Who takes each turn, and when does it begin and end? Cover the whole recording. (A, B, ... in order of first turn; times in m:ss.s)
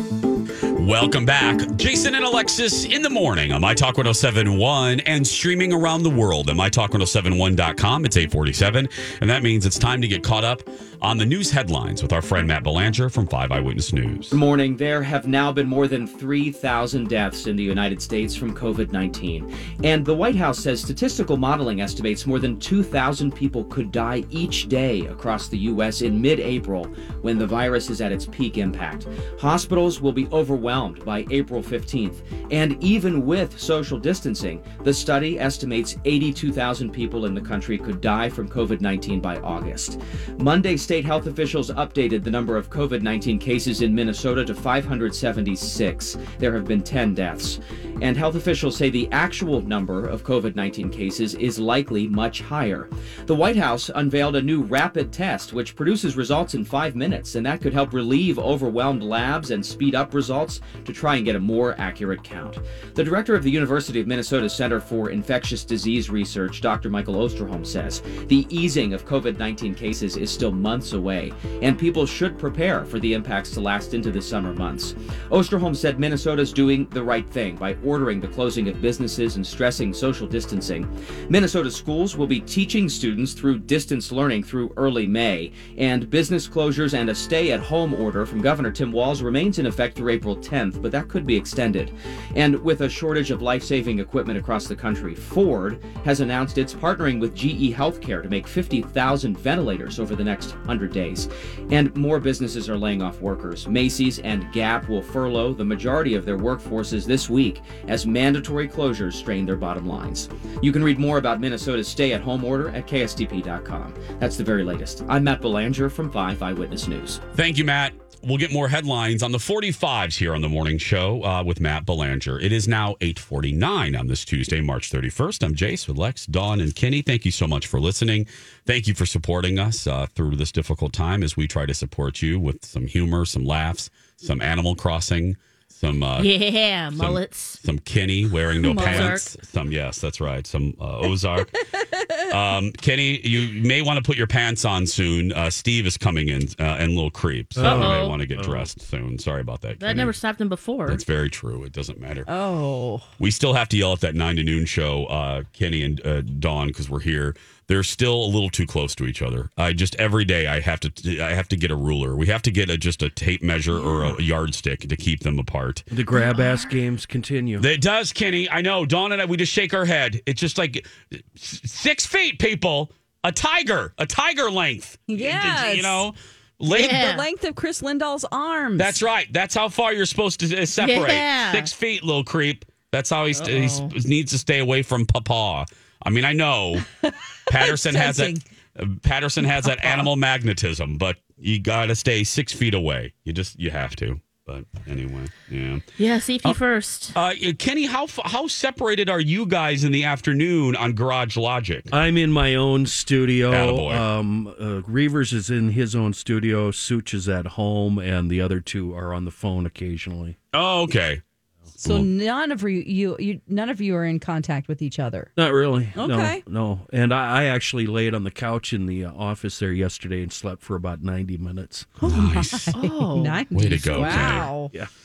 0:00.8-0:14.4 A
0:14.3-1:57.2 B
1:57.3-2:16.3 A
2:16.2-2:17.6 C
2:16.9-2:21.6 A
2:18.6-2:19.3 D
2:18.7-2:19.2 C
2:21.8-2:22.3 D
2:22.3-2:30.2 A
2:27.6-2:28.7 E
2:27.6-2:28.2 C
2:29.8-2:31.0 C
2:30.9-2:32.3 A
2:32.3-2:33.1 D
2:33.2-2:45.9 A
2:45.9-2:47.7 E
2:47.6-2:57.1 A
2:55.1-2:56.1 D
2:56.7-2:59.0 D
2:56.7-2:57.2 C
2:58.8-3:06.9 A
3:00.8-3:01.7 C
3:03.4-3:03.9 C
3:07.0-3:08.4 D
3:07.5-3:15.9 A
3:09.5-3:10.0 D
3:16.0-3:17.2 C
3:17.1-3:21.9 A
3:21.9-3:30.4 E
3:23.5-3:24.1 A
3:30.5-3:31.2 A
3:31.8-3:35.3 D
3:31.8-3:32.1 A
3:35.4-3:41.9 E
3:36.0-3:36.4 D
3:42.0-3:44.7 D
3:42.0-3:42.7 A
3:42.7-3:44.4 C
3:43.5-3:44.5 A
3:44.6-3:44.9 E